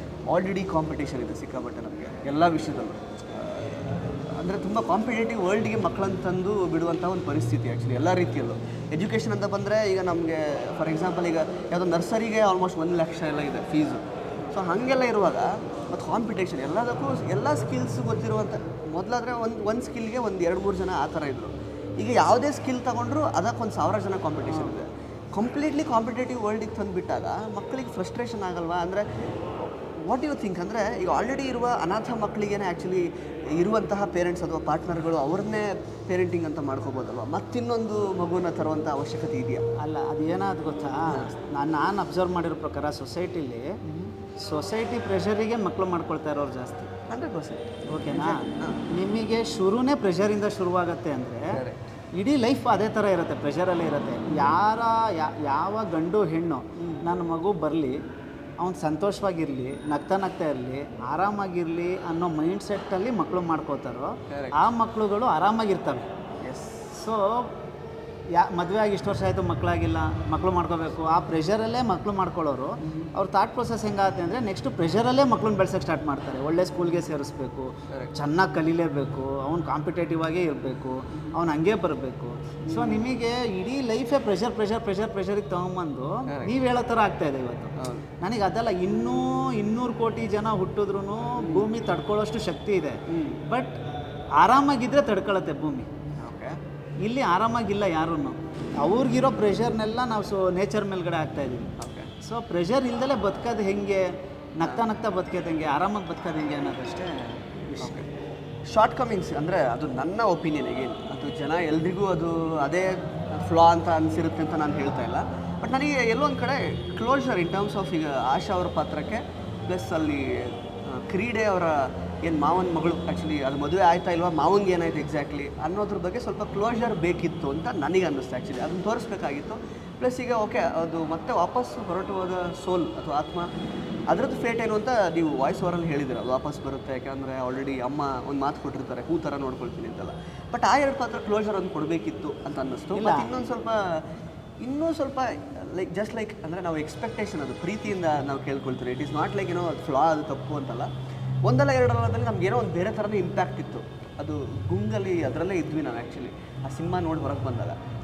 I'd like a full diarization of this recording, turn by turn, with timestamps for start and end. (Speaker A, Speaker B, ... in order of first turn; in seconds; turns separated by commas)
Speaker A: 0.3-29.1, Speaker B: 24.5-24.8, Speaker A: 29.6-39.6, Speaker B: 39.8-43.8, Speaker A: 43.8-44.1, Speaker B: 44.4-46.9, Speaker A: 47.1-48.8, Speaker B: 47.9-51.6, Speaker A: 51.5-51.9, Speaker B: 52.1-58.0, Speaker A: 56.8-57.1, Speaker B: 58.6-66.1, Speaker A: 64.3-64.6, Speaker A: 66.4-67.0, Speaker B: 67.0-67.5, Speaker B: 68.3-93.8, Speaker A: 72.8-73.1, Speaker A: 77.9-78.1, Speaker A: 82.6-83.0, Speaker A: 86.3-86.5, Speaker A: 87.8-88.1, Speaker A: 91.4-91.7, Speaker A: 93.1-93.4, Speaker B: 94.4-95.9, Speaker A: 96.2-96.6, Speaker B: 97.0-101.7, Speaker A: 101.8-102.1, Speaker B: 102.2-108.1, Speaker A: 107.8-108.1, Speaker A: 108.7-133.5, Speaker A: 134.1-144.1, Speaker B: 142.9-143.4, Speaker A: 144.6-150.9, Speaker A: 151.4-157.8